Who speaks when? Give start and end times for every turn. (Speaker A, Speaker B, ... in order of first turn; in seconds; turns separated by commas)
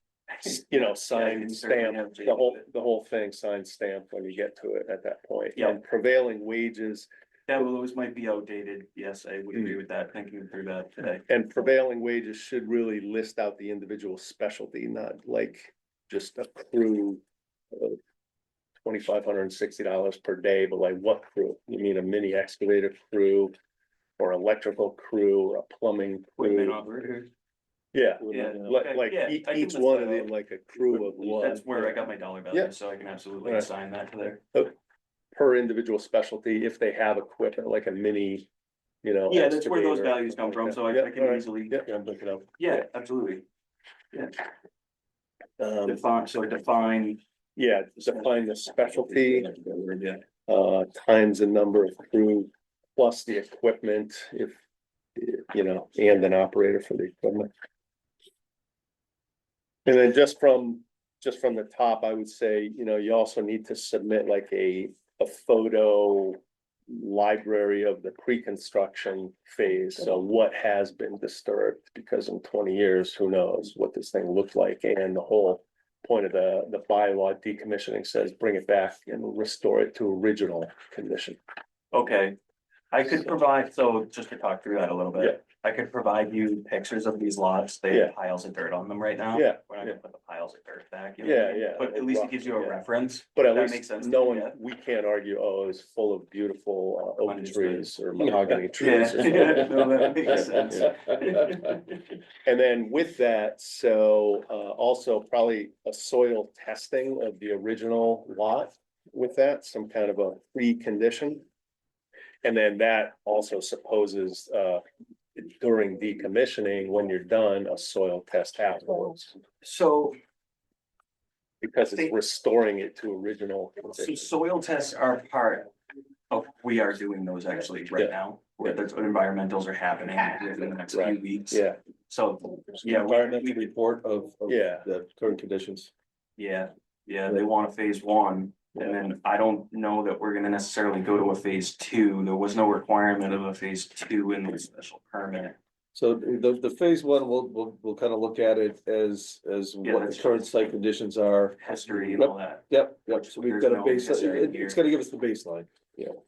Speaker A: 0.3-2.6, Speaker B: 0.4-7.1, Speaker A: 7.5-11.2, Speaker B: 11.3-17.2, Speaker B: 17.7-18.0, Speaker B: 18.8-23.5, Speaker B: 24.2-26.8, Speaker A: 26.4-27.3, Speaker B: 27.9-32.7, Speaker A: 28.3-34.4, Speaker B: 33.4-33.7, Speaker B: 35.3-38.5, Speaker B: 39.0-42.8, Speaker A: 39.3-41.8, Speaker A: 42.6-43.4, Speaker A: 44.1-44.4, Speaker B: 45.6-46.0, Speaker A: 45.8-47.2, Speaker B: 47.5-49.5, Speaker A: 48.0-50.2, Speaker B: 50.5-54.6, Speaker B: 55.2-57.5, Speaker B: 59.8-81.4, Speaker A: 81.9-82.3, Speaker A: 82.9-94.5, Speaker B: 89.3-90.0, Speaker B: 91.2-92.8, Speaker B: 93.3-100.9, Speaker A: 97.2-97.9, Speaker C: 98.2-98.6, Speaker A: 98.8-102.1, Speaker B: 102.4-111.4, Speaker B: 112.4-114.8, Speaker B: 115.3-119.3, Speaker A: 119.6-120.2, Speaker B: 121.6-124.3, Speaker A: 121.9-122.1, Speaker A: 123.9-125.7, Speaker A: 126.3-133.6, Speaker B: 128.0-128.8, Speaker B: 130.9-131.8, Speaker C: 132.8-135.9, Speaker B: 134.5-134.8, Speaker A: 136.4-145.6, Speaker C: 145.9-156.1, Speaker A: 149.8-150.7, Speaker A: 151.6-154.8